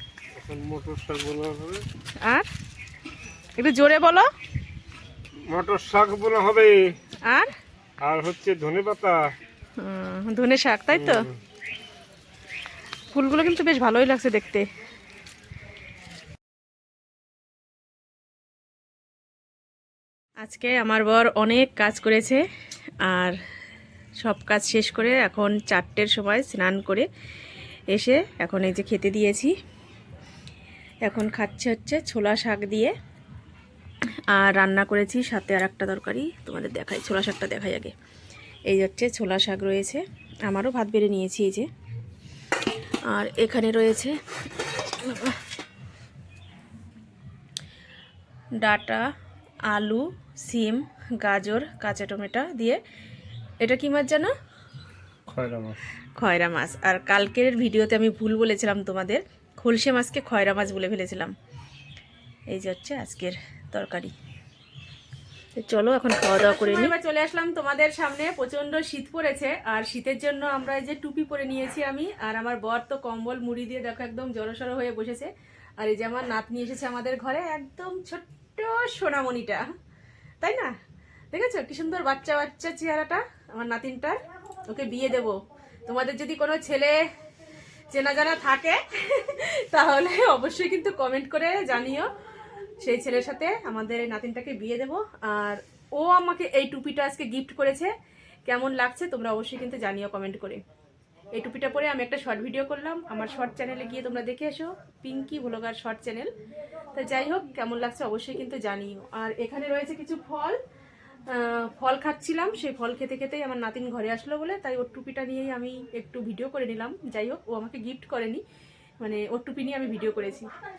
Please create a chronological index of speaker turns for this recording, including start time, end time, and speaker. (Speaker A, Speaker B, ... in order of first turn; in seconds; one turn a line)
Speaker A: 0.3-1.9
Speaker B: 2.2-2.5
Speaker B: 3.6-4.3
Speaker A: 5.5-7.0
Speaker B: 7.2-7.5
Speaker A: 8.0-9.3
Speaker B: 9.8-11.3
Speaker A: 10.9-11.4
Speaker B: 13.1-14.7
Speaker B: 20.4-22.4
Speaker B: 23.0-23.4
Speaker B: 24.2-27.1
Speaker B: 27.9-29.5
Speaker B: 31.0-33.0
Speaker B: 34.3-37.9
Speaker B: 38.7-41.7
Speaker B: 43.1-45.4
Speaker B: 48.6-49.1
Speaker B: 49.7-52.8
Speaker B: 53.6-54.3
Speaker A: 55.3-55.8
Speaker B: 56.2-61.3
Speaker B: 62.5-64.1
Speaker B: 65.6-79.7
Speaker B: 80.4-80.7
Speaker B: 81.3-87.1
Speaker B: 87.9-92.1
Speaker B: 92.8-97.9
Speaker B: 98.5-100.6
Speaker B: 101.3-106.3
Speaker B: 106.9-110.6
Speaker B: 111.3-118.4
Speaker B: 119.0-120.5